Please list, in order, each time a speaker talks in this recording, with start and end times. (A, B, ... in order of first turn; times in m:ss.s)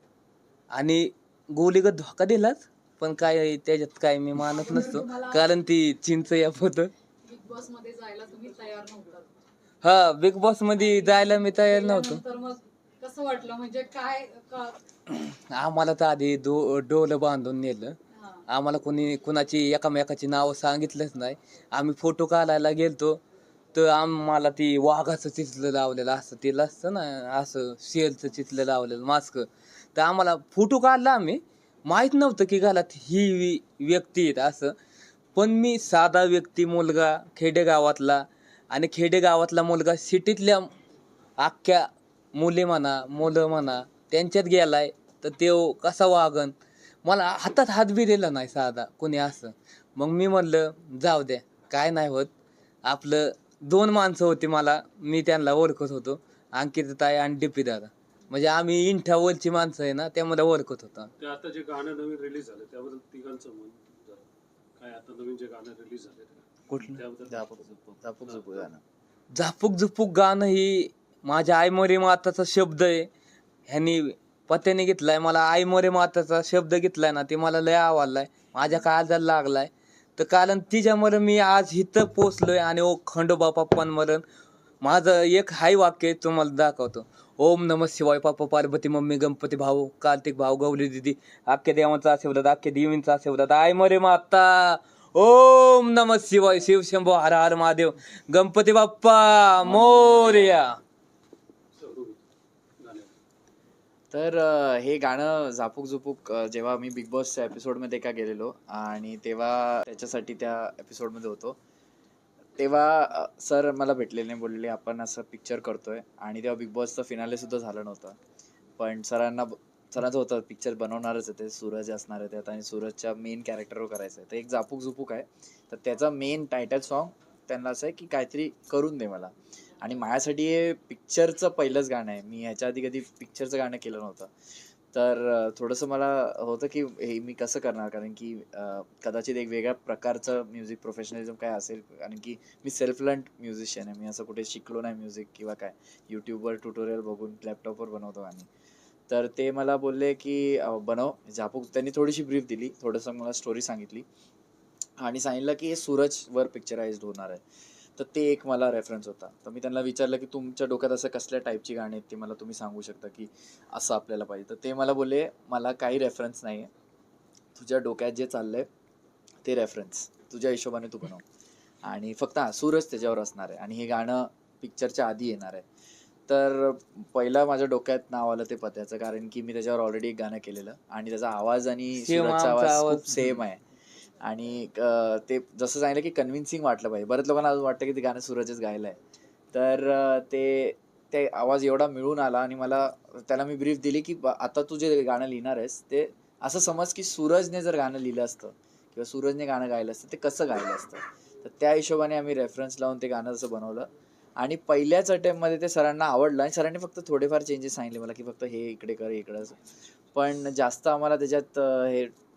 0:00.7-0:06.9 A
0:04.5-0:05.4 B
0:07.2-0:09.3 B
0:09.8-0:12.2 A
0:10.8-0:14.8 B
0:15.1-0:18.0 A
0:18.1-0:18.4 B
0:18.5-0:23.2 A
0:23.7-0:34.7 A
0:35.3-0:40.7 A
0:41.4-0:52.3 A
0:52.8-1:01.1 A
1:01.2-1:04.2 C
1:04.8-1:07.4 C
1:06.7-1:07.0 A
1:07.2-1:08.8 D
1:09.3-1:13.1 A
1:13.7-1:24.2 A
1:24.8-1:40.8 A
1:39.6-1:40.5 C
1:41.7-1:42.2 C
1:42.8-1:43.1 C
1:44.1-1:51.6 D
1:52.6-1:58.2 D
1:58.8-2:14.3 D
2:14.9-2:28.5 D
2:29.1-2:34.0 D
2:35.0-2:37.4 D
2:38.0-2:46.7 D
2:47.5-2:48.7 D
2:49.4-2:51.2 D
2:51.8-2:55.6 D
2:56.3-3:03.6 D
3:02.0-3:03.3 A
3:04.2-3:09.0 D
3:09.5-3:29.6 D
3:30.1-3:32.1 D